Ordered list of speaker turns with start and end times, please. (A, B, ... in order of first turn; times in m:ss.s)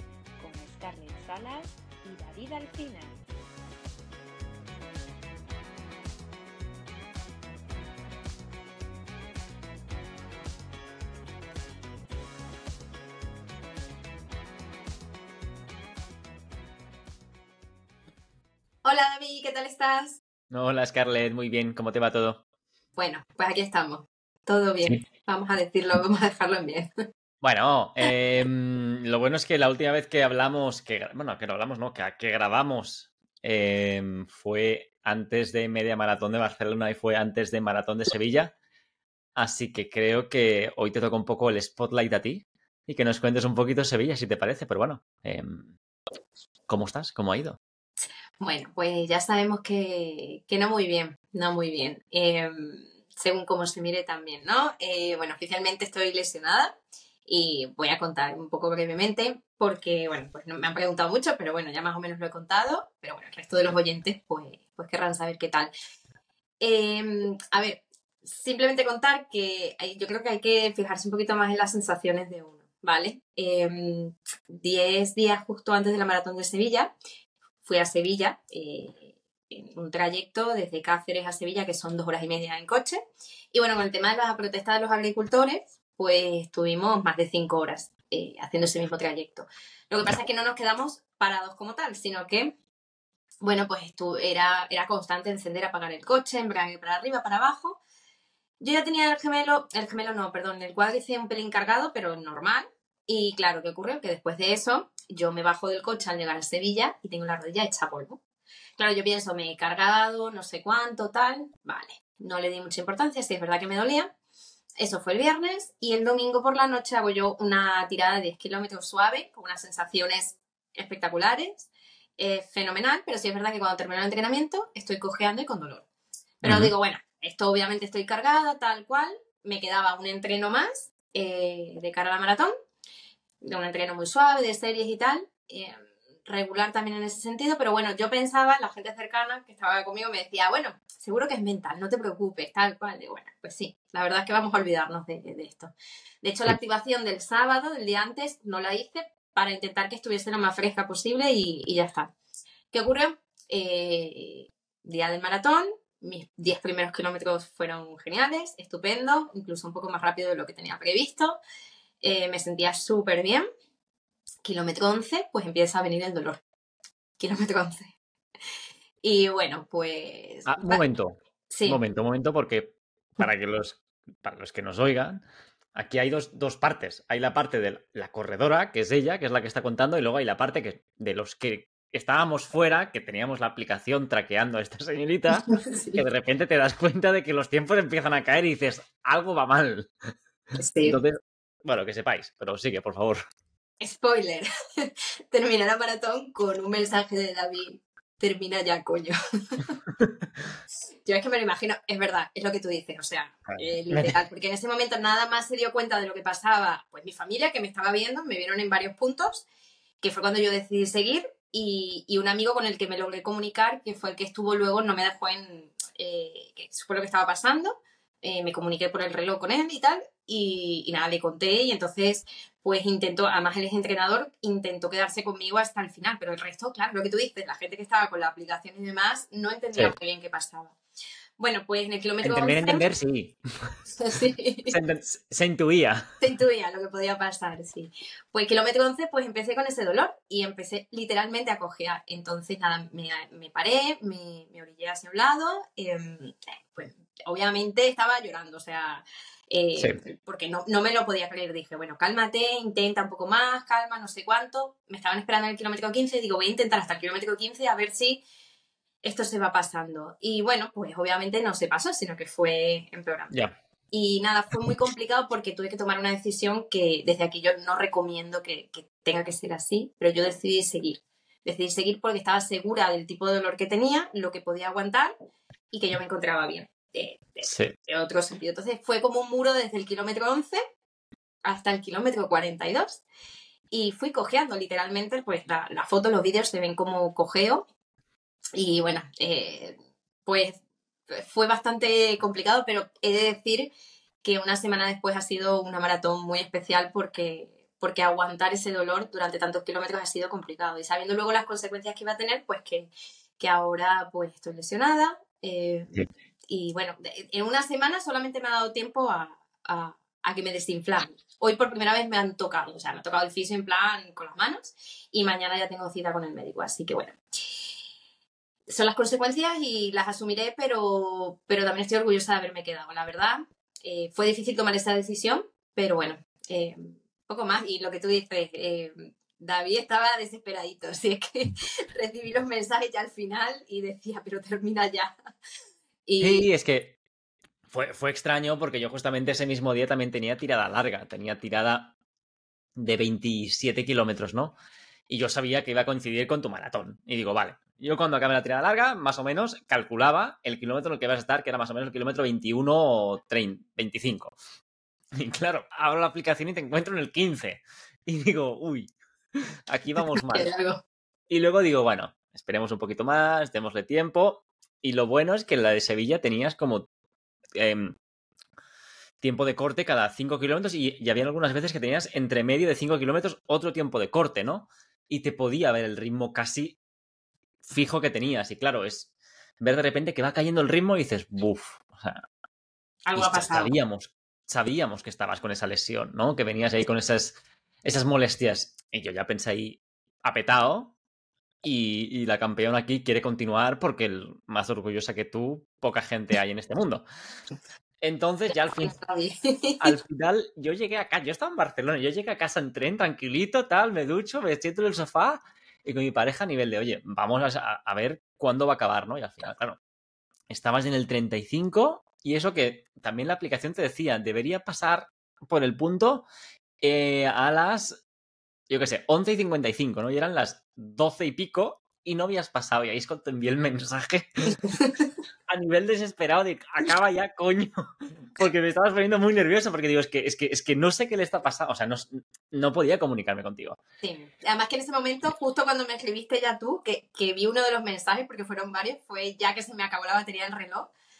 0:00.4-0:03.2 A
0:18.8-0:20.2 B
0:20.5-0:22.4 C
0:23.0-0:26.9 B
0:27.4-0:38.5 C
0:39.4-0:45.7 C
0:46.7-0:47.6 C
0:48.4-0:56.7 B
0:57.3-1:05.7 B
1:06.6-1:16.9 B
1:17.6-1:23.0 B
1:23.5-1:32.5 B
1:33.4-1:37.8 B
1:38.6-1:48.2 B
1:48.8-1:54.1 B
1:54.8-2:05.8 B
2:06.4-2:12.5 B
2:06.4-2:06.7 C
2:13.4-2:25.7 B
2:26.2-2:32.1 B
2:32.7-2:41.4 B
2:42.0-2:43.5 B
2:44.4-2:46.4 B
2:47.2-2:47.9 B
2:49.0-2:50.8 B
2:50.5-2:55.2 C
2:51.5-2:51.8 B
2:55.8-3:09.9 C
3:05.5-3:06.0 B
3:10.6-3:11.0 B
3:10.8-3:13.2 C
3:13.8-3:19.7 B
3:21.1-3:29.5 B
3:23.6-3:24.1 C
3:30.0-3:50.8 B
3:51.4-3:52.8 B
3:52.2-3:53.8 C
3:54.0-3:54.8 B
3:54.7-3:56.1 C
3:56.2-4:18.2 B
4:19.0-4:23.4 B
4:23.9-4:35.1 B
4:35.7-4:40.6 B
4:37.4-4:37.7 C
4:41.4-4:43.0 B
4:43.7-4:47.6 B
4:48.6-4:53.7 B
4:54.2-5:06.0 B
5:06.5-5:17.2 B
5:18.7-5:35.1 B
5:36.1-5:36.5 B
5:36.2-5:37.0 C
5:37.7-5:41.9 C
5:42.8-5:44.5 C
5:45.1-5:54.4 C
5:55.2-6:00.5 C
6:00.1-6:00.8 B
6:01.3-6:06.9 C
6:07.6-6:08.0 C
6:09.2-6:16.8 C
6:17.6-6:22.2 C
6:23.1-6:23.7 B
6:23.2-6:30.9 C
6:31.6-6:37.0 C
6:38.0-6:38.9 C
6:38.7-6:40.0 B
6:39.8-6:49.8 C
6:50.5-6:56.3 C
6:56.8-6:58.0 C
6:58.7-7:04.6 C
7:04.6-7:05.0 B
7:05.5-7:07.8 C
7:08.3-7:13.8 C
7:14.0-7:20.9 B